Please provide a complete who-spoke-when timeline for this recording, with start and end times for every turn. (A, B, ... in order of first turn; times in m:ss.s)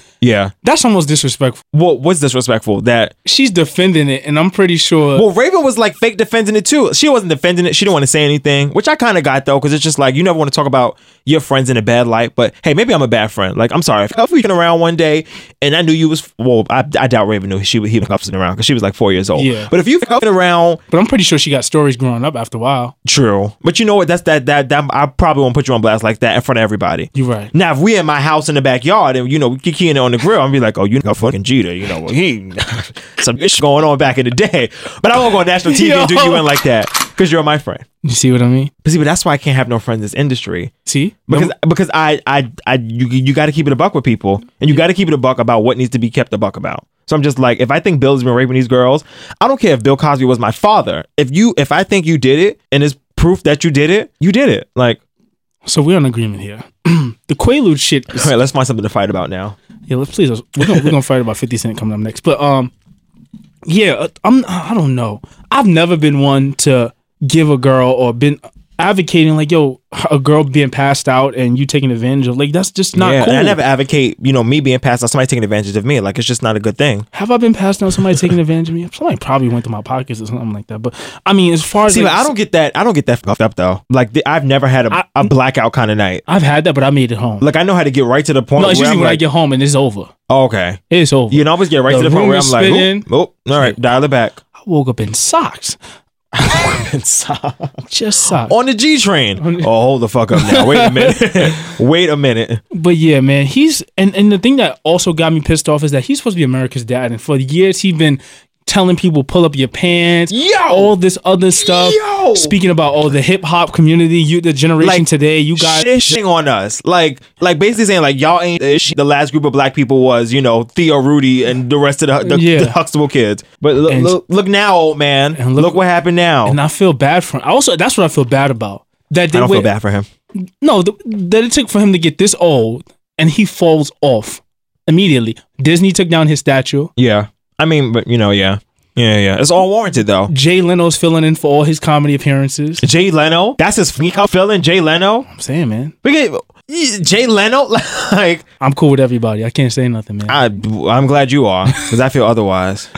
0:00.2-0:00.5 A
0:00.6-0:01.6 B
0:01.7-0:03.1 A
0:03.2-0:05.3 B
0:05.2-0:20.8 A
0:19.4-0:19.7 B
0:20.9-0:22.9 B
0:23.0-0:37.9 A
0:27.2-0:27.5 B
0:35.6-0:36.5 B
0:38.0-0:38.7 B
0:38.8-0:40.7 A
0:40.9-0:41.5 B
0:41.3-0:55.0 A
0:55.6-0:58.3 B
0:58.1-0:59.6 A
0:59.9-1:02.7 B
1:00.6-1:00.9 A
1:03.7-1:13.6 B
1:13.0-1:17.1 A
1:17.1-1:22.3 B
1:21.9-1:26.2 A
1:24.9-1:25.3 B
1:26.3-1:27.5 B
1:27.4-1:29.2 A
1:28.6-1:30.1 B
1:30.3-1:34.4 A
1:30.9-1:33.1 B
1:34.6-1:35.8 B
1:36.4-1:37.8 A
1:37.9-1:38.5 B
1:38.4-1:42.6 A
1:39.4-1:39.7 B
1:40.3-1:41.6 B
1:42.7-1:55.9 B
1:50.3-1:50.9 A
1:51.6-1:52.6 A
1:54.8-2:06.6 A
2:02.2-2:02.8 B
2:03.9-2:04.2 B
2:05.4-2:05.8 B
2:06.5-2:09.7 B
2:09.3-2:10.1 A
2:10.4-2:16.9 B
2:17.0-2:20.3 A
2:20.3-2:22.8 B
2:22.8-2:25.3 A
2:25.3-2:26.0 B
2:26.0-2:28.4 A
2:28.6-2:30.4 B
2:30.3-2:32.9 A